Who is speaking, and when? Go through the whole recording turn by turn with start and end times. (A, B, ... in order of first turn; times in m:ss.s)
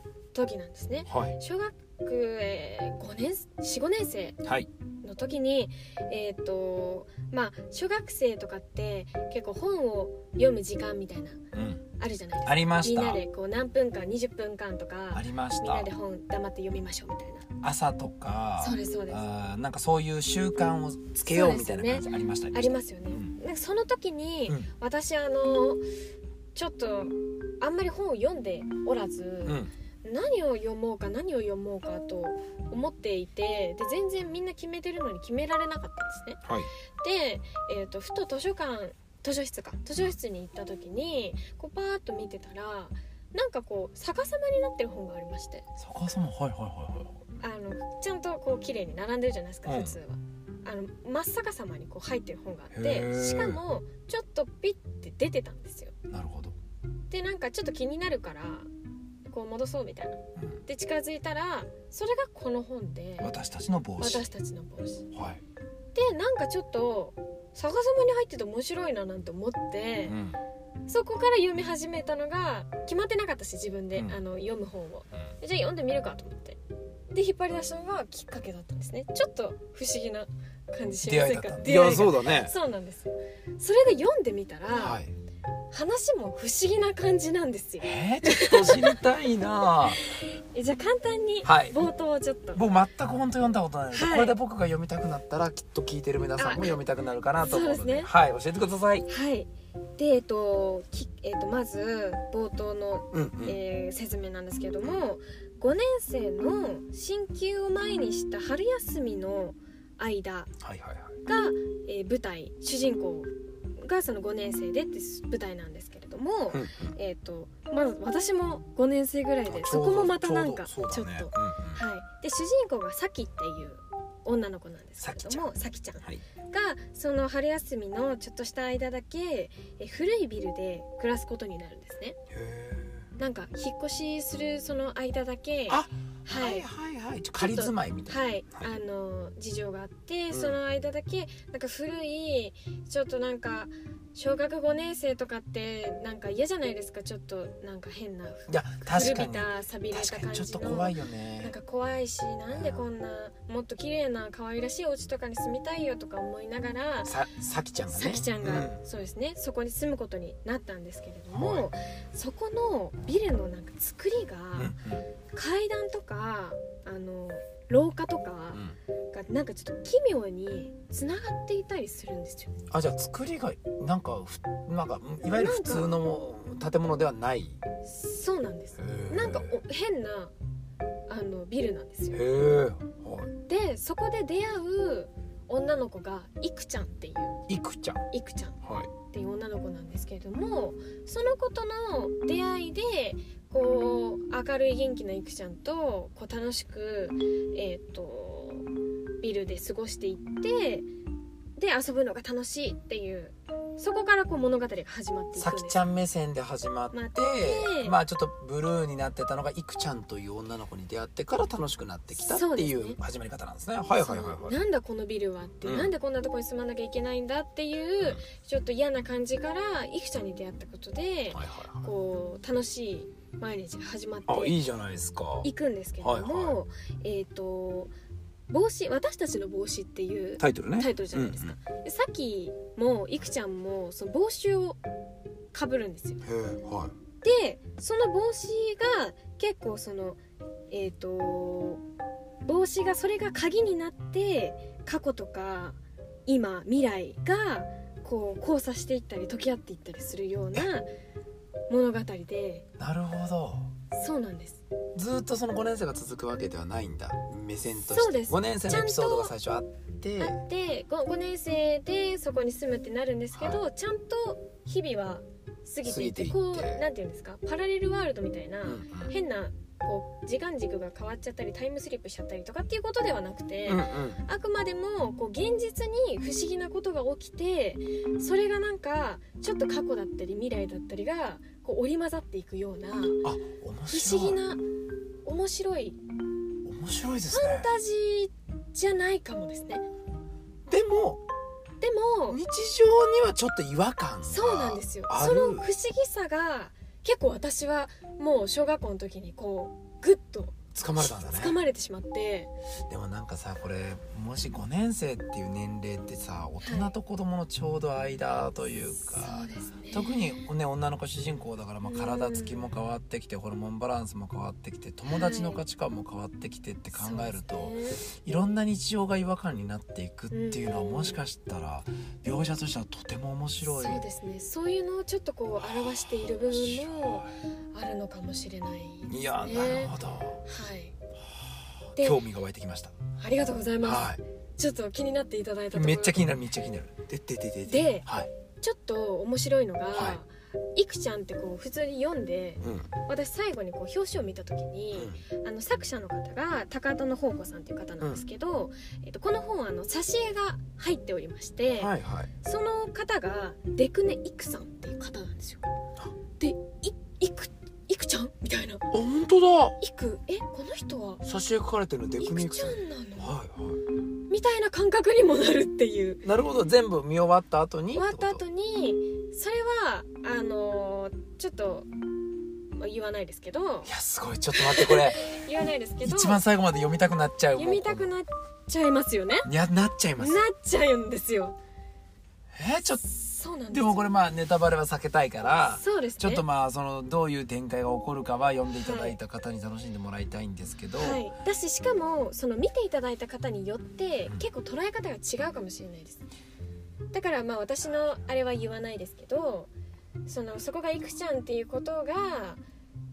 0:00.3-0:04.4 A
0:01.1-0:01.3 B
0:04.4-0:04.7 B
0:05.0-0:11.4 A
0:11.5-0:11.8 B
0:12.0-0:17.4 A
0:12.4-0:13.2 B
0:15.1-0:15.9 B
0:17.6-0:23.3 B
0:18.6-0:19.2 A
0:21.2-0:25.8 A
0:26.5-0:36.4 A
0:29.4-0:29.7 B
0:36.4-0:36.7 B
0:37.0-0:45.6 A
0:45.8-0:47.3 B
0:47.4-0:55.9 A
0:49.6-0:50.0 B
0:52.7-0:53.6 B
0:56.1-0:56.6 B
0:57.1-0:58.7 A
0:59.3-1:03.3 A
1:03.2-1:04.3 B
1:04.0-1:05.1 A
1:05.1-1:05.4 B
1:05.9-1:10.2 A
1:10.0-1:10.4 B
1:10.9-1:16.6 A
1:17.1-1:25.0 A
1:20.9-1:22.5 B
1:24.7-1:25.1 B
1:25.7-1:29.0 A
1:27.8-1:30.0 B
1:30.3-1:32.6 A
1:31.4-1:31.8 B
1:32.5-1:39.1 B
1:33.9-1:34.4 A
1:36.4-1:36.7 A
1:37.4-1:38.1 A
1:39.1-1:50.5 A
1:43.1-1:43.6 B
1:50.6-1:51.2 B
1:51.2-2:12.2 A
1:56.5-1:57.0 B
1:59.4-2:01.8 B
2:05.0-2:05.5 B
2:12.3-2:13.1 B
2:13.2-2:16.7 A
2:15.7-2:18.7 B
2:17.4-2:37.1 A
2:20.3-2:20.6 B
2:28.5-2:31.5 B
2:32.5-2:32.8 B
2:37.0-2:38.8 B
2:37.9-2:44.7 A
2:41.3-2:41.7 B
2:44.6-2:45.0 B
2:45.3-2:52.5 A
2:52.7-2:57.6 B
2:55.3-2:56.0 A
2:57.8-3:00.3 A
2:58.8-2:59.6 B
3:01.1-3:02.2 A
3:02.1-3:03.3 B
3:03.5-3:07.4 A
3:07.5-3:08.0 B
3:08.1-3:18.6 A
3:08.6-3:08.9 B
3:19.2-3:20.9 A
3:21.6-3:25.8 A
3:25.4-3:34.6 B
3:26.9-3:28.0 A
3:32.1-3:33.0 A
3:34.0-3:44.6 A
3:35.6-3:35.9 B
3:41.3-3:41.9 B
3:44.3-3:45.5 B
3:45.4-3:47.9 A
3:46.0-3:46.6 B
3:48.5-3:54.8 A
3:50.4-3:51.6 B
3:55.5-3:56.2 A
3:56.2-3:56.9 B
3:57.2-4:00.2 A
4:00.7-4:01.8 A
4:02.4-4:10.9 A
4:11.7-4:12.6 A
4:12.8-4:13.7 B
4:13.9-4:14.6 A
4:14.9-4:20.4 B
4:17.9-4:19.3 A
4:20.2-4:43.2 A
4:23.4-4:23.6 B
4:25.8-4:26.8 B
4:28.6-4:29.1 B
4:33.6-4:34.2 B
4:43.2-4:44.4 B
4:43.9-4:44.6 A
4:45.2-4:46.0 A
4:46.6-4:47.7 B
4:47.3-4:49.8 A
4:50.7-4:51.2 B
4:51.8-4:52.4 A
4:52.3-4:55.7 B
4:54.2-5:02.5 A
5:00.7-5:01.6 B
5:02.9-5:24.0 B
5:06.6-5:06.9 A
5:09.0-5:10.4 A
5:11.8-5:12.7 A
5:15.1-5:15.6 A
5:16.9-5:18.0 A
5:20.3-5:21.2 A
5:23.6-5:30.9 A
5:25.6-5:27.3 B
5:29.1-5:30.4 B
5:32.0-5:32.9 B
5:33.2-5:36.2 A
5:33.8-5:34.2 B
5:35.7-5:38.3 B
5:37.6-5:38.1 A
5:38.6-5:55.7 A
5:39.9-5:40.2 B
5:42.6-5:42.9 B
5:44.9-5:45.2 B
5:51.8-5:52.3 B
5:56.4-5:58.8 A
5:58.9-5:59.8 B
5:59.8-6:01.2 A
6:01.2-6:03.8 B
6:02.2-6:03.3 A
6:04.3-6:06.2 A
6:06.2-6:08.4 B
6:07.9-6:11.9 A
6:12.7-6:13.9 A
6:13.8-6:15.3 B
6:14.5-6:16.4 A
6:16.0-6:18.1 B
6:17.5-6:19.5 A
6:19.4-6:20.4 B
6:20.2-6:21.6 A
6:22.5-6:23.0 B
6:23.0-6:24.1 A
6:23.7-6:31.2 B
6:25.6-6:26.4 A
6:28.8-6:29.2 A
6:31.0-6:36.2 A
6:37.1-6:39.7 A
6:40.2-6:42.6 A